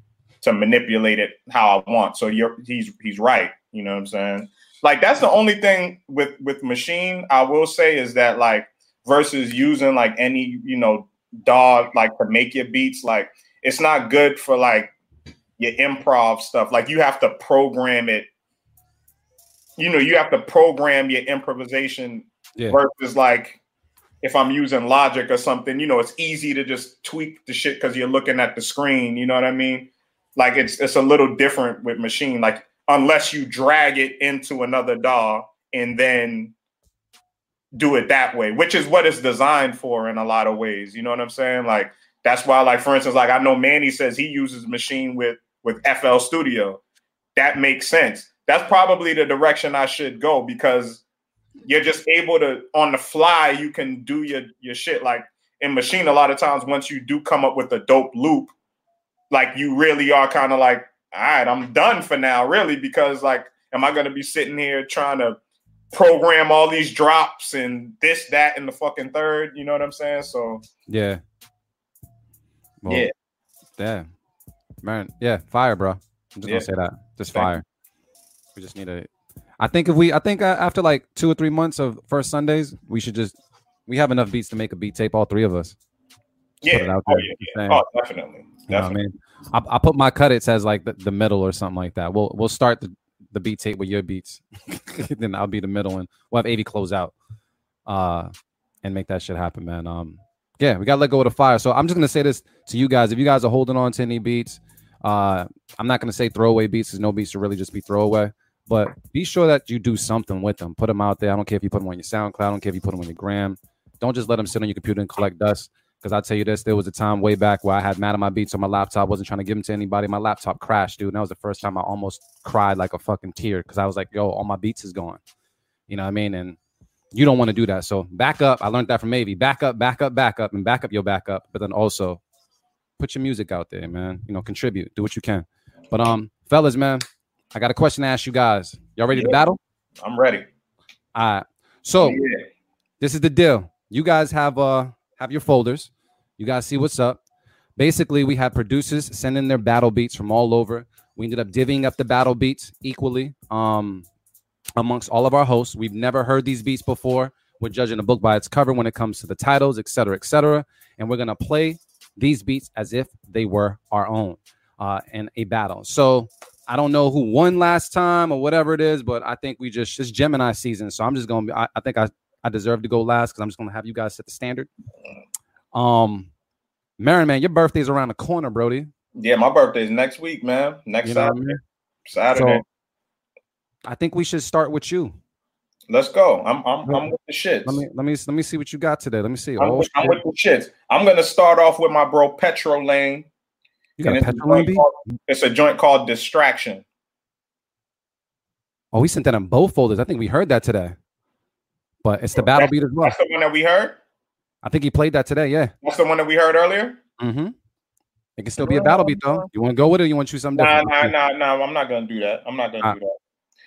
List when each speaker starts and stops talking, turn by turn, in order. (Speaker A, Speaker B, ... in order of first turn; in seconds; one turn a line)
Speaker A: 0.4-14.9
Speaker A: 15.6-18.3
Speaker A: 19.8-23.6
Speaker A: 24.2-36.5
Speaker A: 37.7-46.8
Speaker A: 47.4-51.0
Speaker A: 51.6-58.5
Speaker A: 59.3-65.4
Speaker A: 65.9-70.6
Speaker B: 70.9-71.2
Speaker B: 72.8-73.1
Speaker B: 73.8-74.1
Speaker B: 74.8-77.6
Speaker B: 78.5-79.1
Speaker B: 79.6-83.3
Speaker B: 83.9-85.8
Speaker A: 86.6-89.0
Speaker B: 86.6-87.8
Speaker B: 88.7-97.1
Speaker B: 97.9-98.3
Speaker B: 98.8-125.2
Speaker B: 125.9-126.6
Speaker B: 127.1-132.2
Speaker B: 133.0-139.6
Speaker A: 139.1-139.4
Speaker A: 140.0-140.5
Speaker B: 141.1-142.2
Speaker A: 142.0-142.4
Speaker B: 143.0-147.2
Speaker B: 147.8-154.1
Speaker B: 154.8-174.7
Speaker B: 175.7-176.3
Speaker B: 177.0-178.9
Speaker A: 179.2-181.5
Speaker B: 181.0-181.6
Speaker A: 182.1-182.6
Speaker B: 182.3-182.6
Speaker B: 183.8-185.2
Speaker A: 185.9-187.8
Speaker B: 187.6-190.2
Speaker A: 189.6-193.3
Speaker B: 194.0-194.9
Speaker A: 194.0-196.8
Speaker B: 198.9-200.9
Speaker B: 202.0-203.1
Speaker A: 202.3-204.0
Speaker B: 204.6-205.7
Speaker A: 205.8-207.0
Speaker B: 207.2-207.5
Speaker B: 208.4-211.1
Speaker A: 208.6-209.5
Speaker A: 210.5-213.1